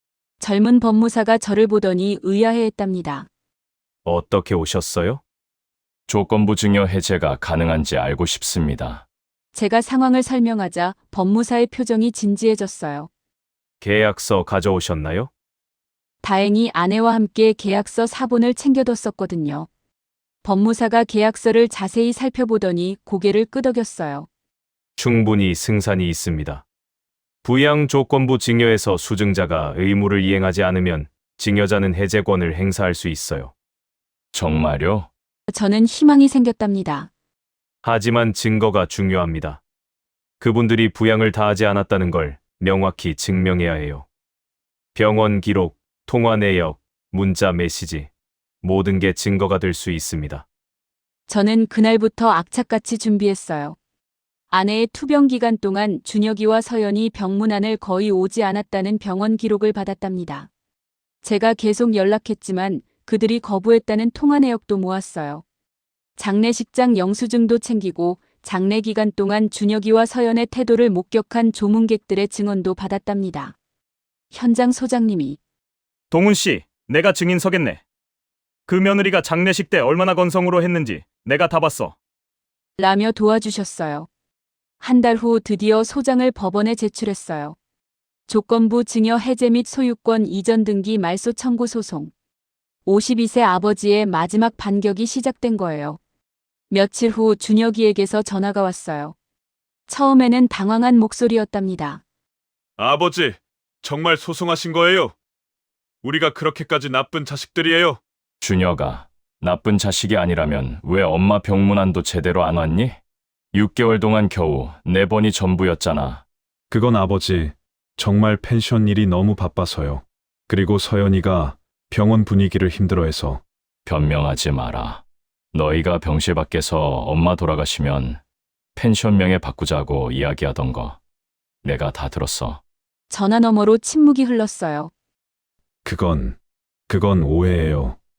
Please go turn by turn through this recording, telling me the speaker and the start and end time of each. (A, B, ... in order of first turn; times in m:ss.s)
0:00.4-0:03.3 A
0:04.0-0:05.2 B
0:06.1-0:09.0 C
0:09.5-0:13.1 A
0:13.8-0:15.3 B
0:16.2-0:19.7 A
0:20.4-0:24.3 A
0:25.0-0:26.6 B
0:27.4-0:33.5 B
0:34.3-0:35.1 C
0:35.5-0:37.1 A
0:37.8-0:39.6 B
0:40.4-0:44.1 B
0:45.0-0:48.1 B
0:48.6-0:50.5 B
0:51.3-0:53.8 A
0:54.5-1:00.5 A
1:01.2-1:05.4 A
1:06.2-1:13.6 A
1:14.3-1:15.4 A
1:16.1-1:17.8 D
1:18.7-1:22.0 D
1:22.8-1:24.1 A
1:24.8-1:27.6 A
1:28.3-1:32.1 A
1:32.9-1:36.0 A
1:36.7-1:39.2 A
1:39.9-1:42.0 A
1:42.8-1:45.1 E
1:46.0-1:48.0 E
1:48.4-1:53.0 C
1:53.5-1:56.2 C
1:56.7-2:03.4 F
2:03.8-2:08.2 C
2:08.8-2:11.0 C
2:11.6-2:12.6 C
2:13.1-2:14.9 A
2:15.8-2:16.4 F
2:16.9-2:17.5 B